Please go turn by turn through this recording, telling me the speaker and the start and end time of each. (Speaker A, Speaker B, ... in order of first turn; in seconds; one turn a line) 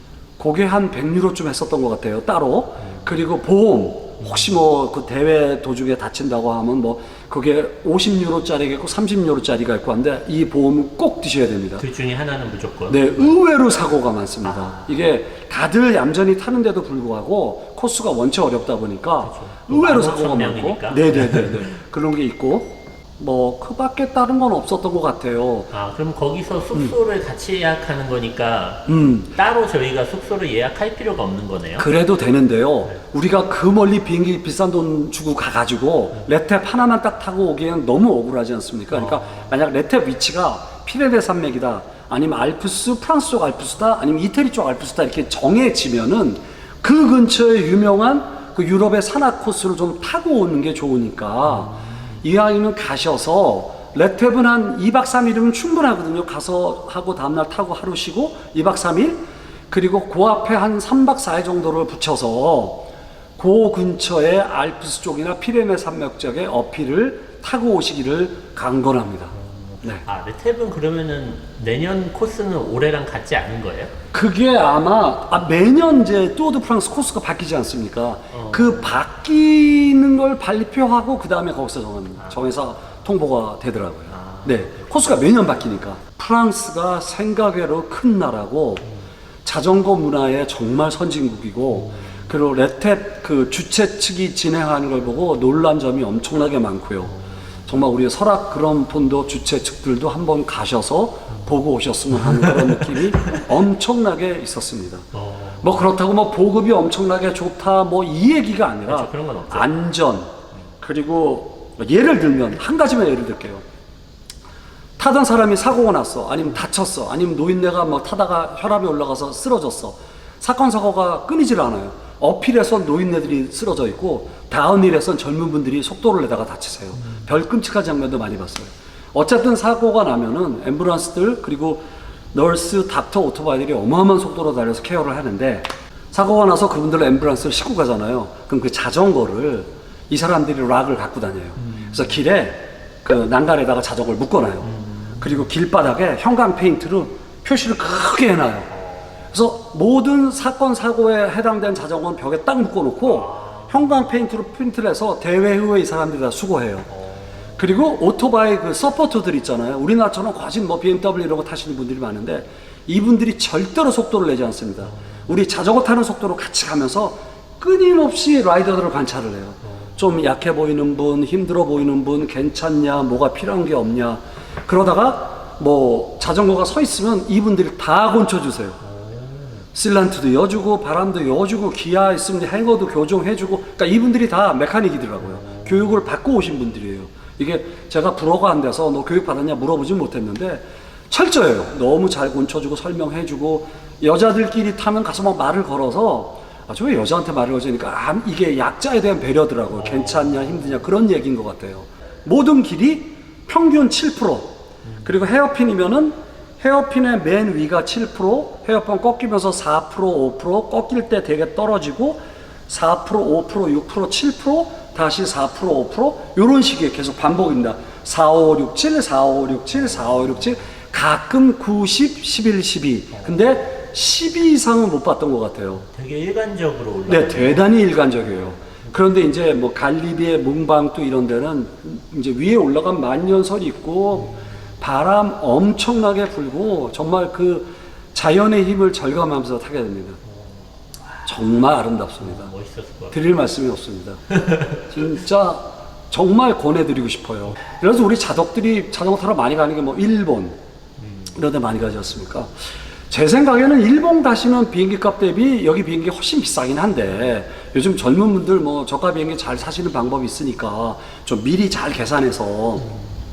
Speaker A: 0.4-11.8
Speaker B: 11.8-13.2
Speaker A: 12.9-25.7
Speaker B: 14.4-14.9
Speaker B: 19.2-21.6
Speaker B: 25.7-31.9
Speaker A: 28.9-29.3
Speaker A: 31.8-70.0
Speaker B: 38.9-39.5
Speaker B: 69.4-73.9
Speaker A: 74.1-88.9
Speaker B: 78.3-78.9
Speaker B: 84.1-85.2
Speaker A: 89.4-97.1
Speaker B: 91.8-92.2
Speaker B: 97.0-97.6
Speaker A: 97.7-105.1
Speaker B: 102.4-102.8
Speaker B: 105.1-105.9
Speaker A: 105.6-113.6
Speaker B: 108.9-109.7
Speaker A: 115.0-148.7
Speaker B: 141.6-141.9
Speaker B: 144.6-145.4
Speaker B: 148.7-149.1
Speaker A: 149.3-156.9
Speaker B: 153.1-154.1
Speaker B: 156.9-157.7
Speaker A: 157.6-178.8
Speaker B: 164.8-165.3
Speaker B: 169.6-170.2
Speaker B: 178.8-179.6
Speaker A: 179.7-204.5
Speaker B: 185.2-186.0
Speaker B: 199.9-200.4
Speaker B: 204.8-205.2
Speaker A: 205.0-225.8
Speaker B: 225.8-229.0
Speaker A: 227.1-240.2
Speaker A: 241.2-242.5
Speaker B: 242.2-243.2
Speaker A: 243.1-250.6
Speaker B: 251.0-251.3
Speaker A: 251.3-252.5
Speaker A: 253.1-262.9